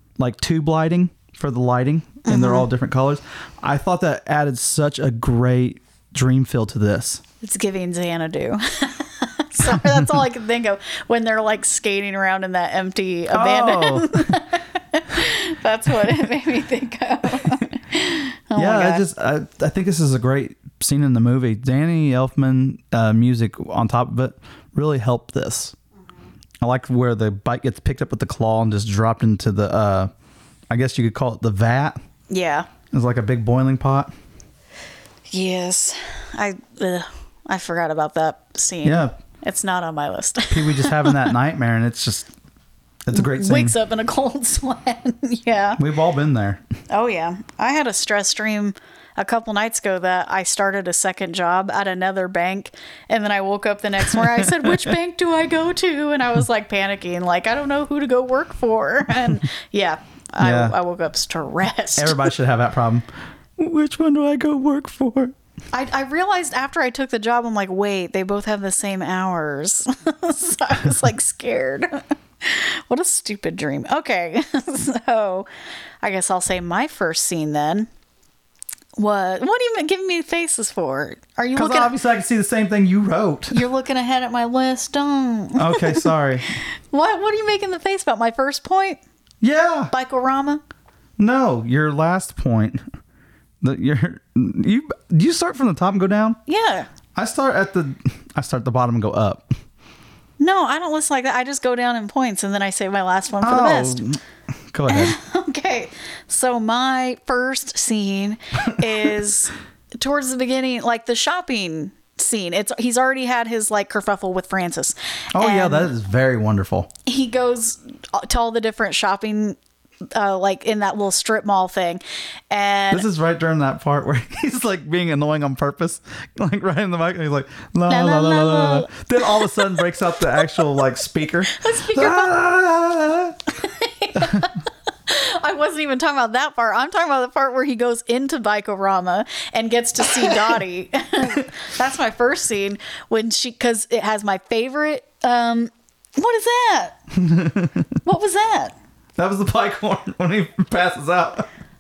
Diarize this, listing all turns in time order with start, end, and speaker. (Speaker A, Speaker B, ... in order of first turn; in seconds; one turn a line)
Speaker A: 0.2-7.2
Speaker B: 2.3-2.7
Speaker B: 7.4-19.0
Speaker A: 13.3-14.4
Speaker A: 18.6-25.8
Speaker A: 26.6-30.1
Speaker A: 30.7-32.0
Speaker B: 32.3-32.7
Speaker A: 32.9-34.1
Speaker B: 35.3-41.3
Speaker A: 38.8-39.1
Speaker A: 40.5-42.3
Speaker A: 43.0-43.8
Speaker B: 43.1-45.8
Speaker A: 45.8-46.6
Speaker B: 46.9-62.3
Speaker A: 54.2-54.8
Speaker A: 60.4-60.8
Speaker A: 62.0-63.1
Speaker A: 63.6-65.3
Speaker B: 65.7-75.5
Speaker B: 76.0-77.9
Speaker B: 79.0-81.9
Speaker A: 81.5-83.6
Speaker B: 83.5-89.0
Speaker A: 85.6-86.5
Speaker A: 89.4-89.9
Speaker B: 89.9-90.6
Speaker A: 91.2-92.8
Speaker A: 93.6-96.4
Speaker B: 96.5-96.9
Speaker A: 97.2-99.5
Speaker B: 100.4-104.0
Speaker A: 103.4-104.2
Speaker A: 104.7-105.1
Speaker B: 104.9-115.9
Speaker A: 115.3-116.9
Speaker B: 117.1-119.6
Speaker B: 120.1-123.1
Speaker A: 122.9-133.4
Speaker B: 127.9-129.8
Speaker B: 131.4-132.4
Speaker B: 133.5-147.0
Speaker A: 134.2-134.5
Speaker A: 147.1-147.9
Speaker B: 148.0-148.7
Speaker A: 149.2-151.5